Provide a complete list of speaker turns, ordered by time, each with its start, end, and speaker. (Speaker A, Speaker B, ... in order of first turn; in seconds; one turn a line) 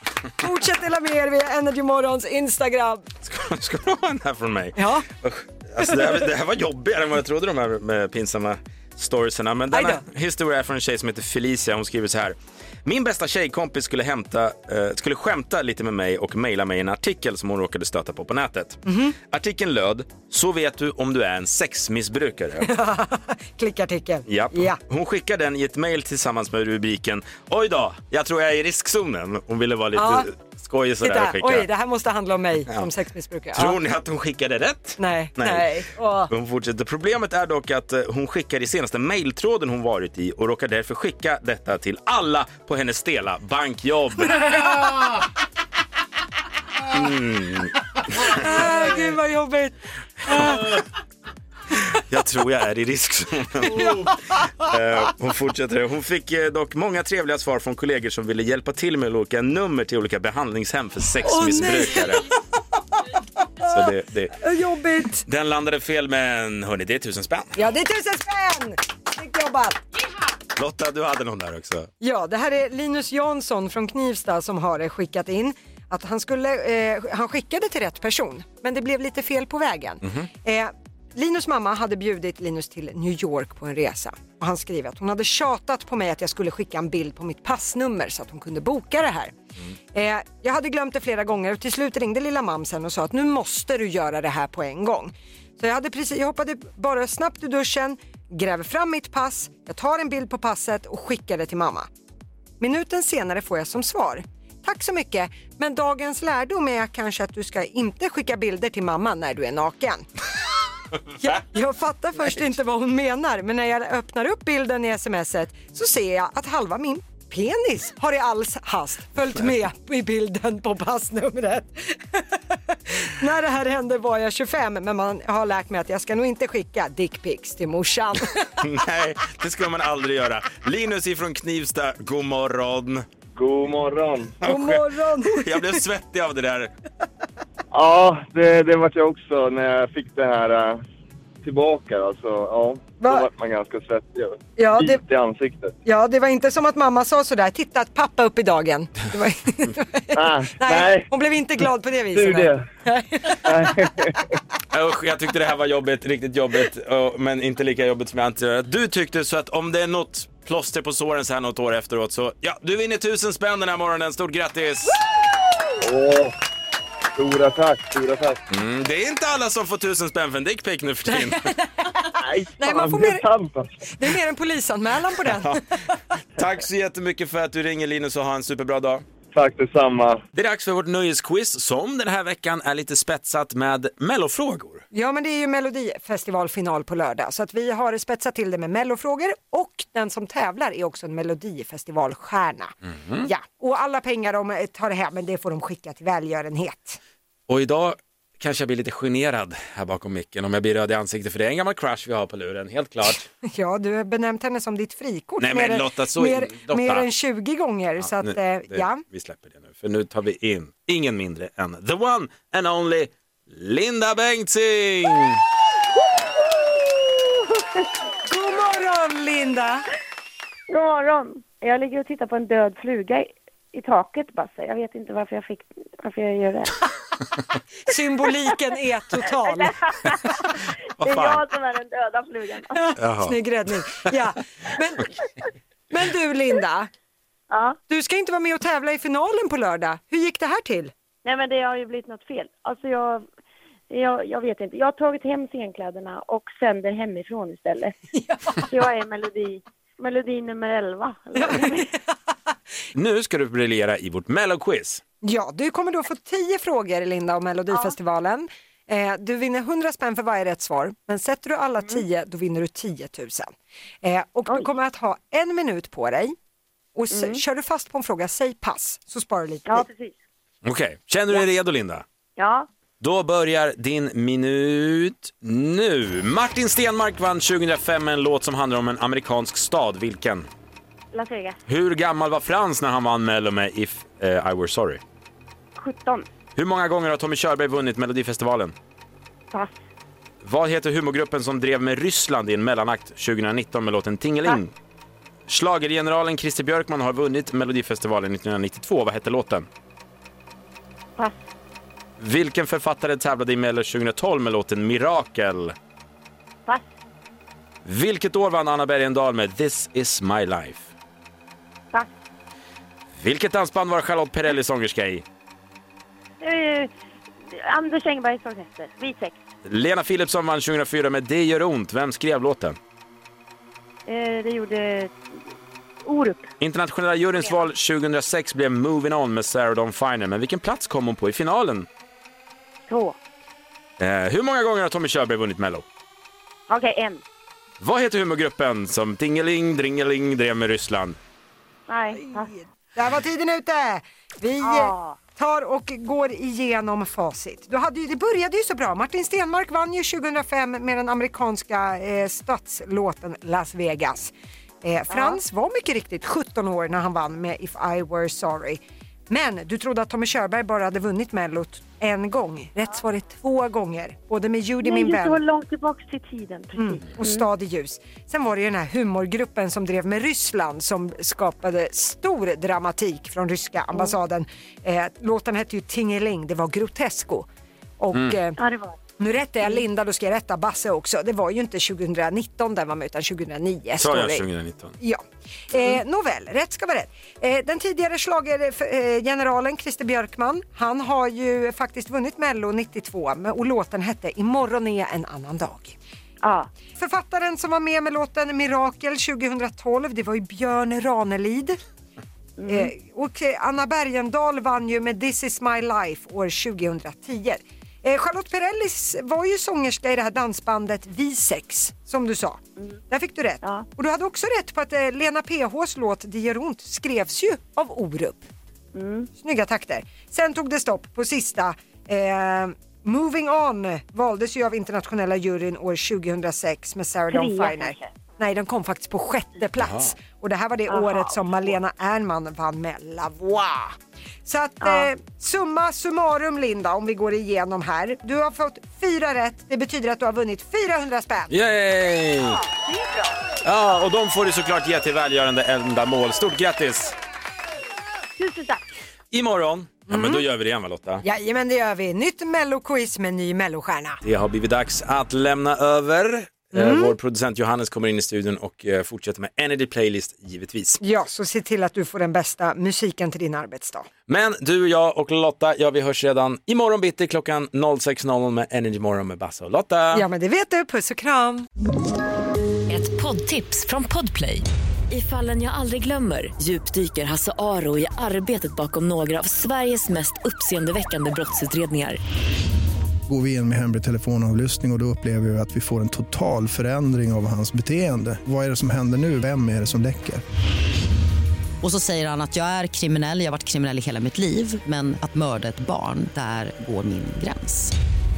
Speaker A: 0.4-3.1
Speaker B: 3.2-22.7
Speaker A: 4.8-5.1
Speaker A: 9.7-10.0
Speaker A: 18.9-19.2
Speaker A: 22.6-24.8
Speaker B: 24.3-31.7
Speaker A: 30.0-30.3
Speaker A: 31.0-33.8
Speaker B: 33.5-35.7
Speaker A: 35.0-36.3
Speaker B: 36.3-44.5
Speaker B: 46.9-48.4
Speaker A: 48.2-50.8
Speaker B: 50.3-50.8
Speaker B: 52.0-54.1
Speaker A: 53.6-54.1
Speaker B: 54.6-62.3
Speaker A: 61.2-62.2
Speaker A: 63.6-63.9
Speaker B: 63.7-64.4
Speaker A: 64.4-65.2
Speaker B: 65.3-67.5
Speaker A: 67.6-69.8
Speaker B: 70.6-71.9
Speaker A: 72.0-89.3
Speaker B: 80.0-80.3
Speaker A: 89.9-101.9
Speaker A: 102.6-110.1
Speaker A: 111.2-128.5
Speaker B: 128.6-133.1
Speaker C: 133.3-134.4
Speaker B: 134.4-136.7
Speaker A: 134.4-135.8
Speaker C: 137.7-140.8
Speaker C: 141.4-145.8
Speaker A: 143.0-143.3
Speaker A: 144.6-145.0
Speaker A: 145.9-153.5
Speaker C: 150.2-151.1
Speaker C: 152.1-152.7
Speaker C: 153.4-154.2
Speaker B: 154.7-165.0
Speaker C: 165.8-166.3
Speaker C: 167.2-168.4
Speaker B: 168.5-171.5
Speaker A: 171.1-173.2
Speaker C: 172.2-173.8
Speaker A: 173.9-175.6
Speaker B: 175.3-175.6
Speaker B: 176.4-179.0
Speaker C: 179.3-180.2
Speaker B: 180.3-184.8
Speaker A: 184.9-197.0
Speaker B: 192.9-193.3
Speaker B: 197.5-203.2
Speaker A: 203.5-209.0
Speaker B: 205.4-207.1
Speaker B: 208.0-215.4
Speaker A: 218.3-219.8
Speaker D: 220.7-226.8
Speaker A: 227.9-230.2
Speaker D: 229.3-230.3
Speaker D: 231.0-232.8
Speaker B: 231.0-231.4
Speaker A: 232.8-235.2
Speaker B: 233.0-233.3
Speaker A: 235.9-236.9
Speaker D: 237.5-237.8
Speaker A: 237.9-240.9
Speaker D: 241.2-243.3
Speaker D: 243.9-247.9
Speaker A: 248.2-248.6
Speaker D: 248.6-251.9
Speaker A: 251.4-251.9
Speaker B: 252.9-255.0
Speaker A: 255.2-263.5
Speaker A: 264.0-266.4
Speaker A: 266.9-269.9
Speaker D: 267.1-267.4
Speaker D: 269.7-270.1
Speaker B: 270.6-272.0
Speaker D: 272.4-272.7
Speaker B: 273.0-280.5
Speaker D: 281.1-281.6
Speaker B: 281.7-285.0
Speaker D: 285.8-286.3
Speaker B: 286.6-288.8
Speaker B: 290.4-294.7
Speaker B: 295.5-299.7
Speaker B: 302.2-305.8
Speaker B: 307.9-310.9
Speaker B: 313.2-315.2
Speaker D: 316.4-316.9
Speaker D: 317.5-319.4
Speaker B: 319.6-322.8
Speaker D: 324.1-325.1
Speaker D: 326.0-326.5
Speaker B: 326.6-331.9
Speaker D: 332.9-333.2
Speaker B: 334.0-335.8
Speaker D: 336.7-337.2
Speaker B: 337.8-341.2
Speaker D: 341.9-342.5
Speaker A: 342.2-354.3
Speaker D: 344.6-345.2
Speaker A: 354.8-365.4
Speaker D: 355.1-355.4
Speaker D: 364.8-367.5
Speaker A: 366.8-378.6
Speaker D: 378.6-379.0
Speaker A: 379.2-384.4
Speaker B: 384.0-384.9
Speaker A: 385.0-395.9
Speaker D: 396.4-396.7
Speaker A: 397.0-401.8
Speaker D: 402.6-402.9
Speaker A: 402.7-418.4
Speaker D: 413.6-413.9
Speaker D: 418.9-419.3
Speaker A: 419.4-433.9
Speaker D: 427.3-428.1
Speaker B: 429.8-430.1
Speaker D: 430.9-431.7
Speaker A: 434.5-441.5
Speaker D: 434.8-435.1
Speaker B: 441.5-442.6
Speaker D: 442.5-443.4
Speaker B: 443.6-447.2
Speaker D: 448.4-448.8
Speaker B: 449.3-451.2
Speaker A: 450.1-450.4
Speaker A: 451.2-454.2
Speaker B: 454.2-461.0
Speaker A: 456.7-457.1
Speaker A: 461.0-464.1
Speaker B: 464.3-470.2
Speaker A: 470.1-471.7
Speaker E: 472.9-482.2
Speaker F: 483.3-490.4
Speaker G: 491.8-497.9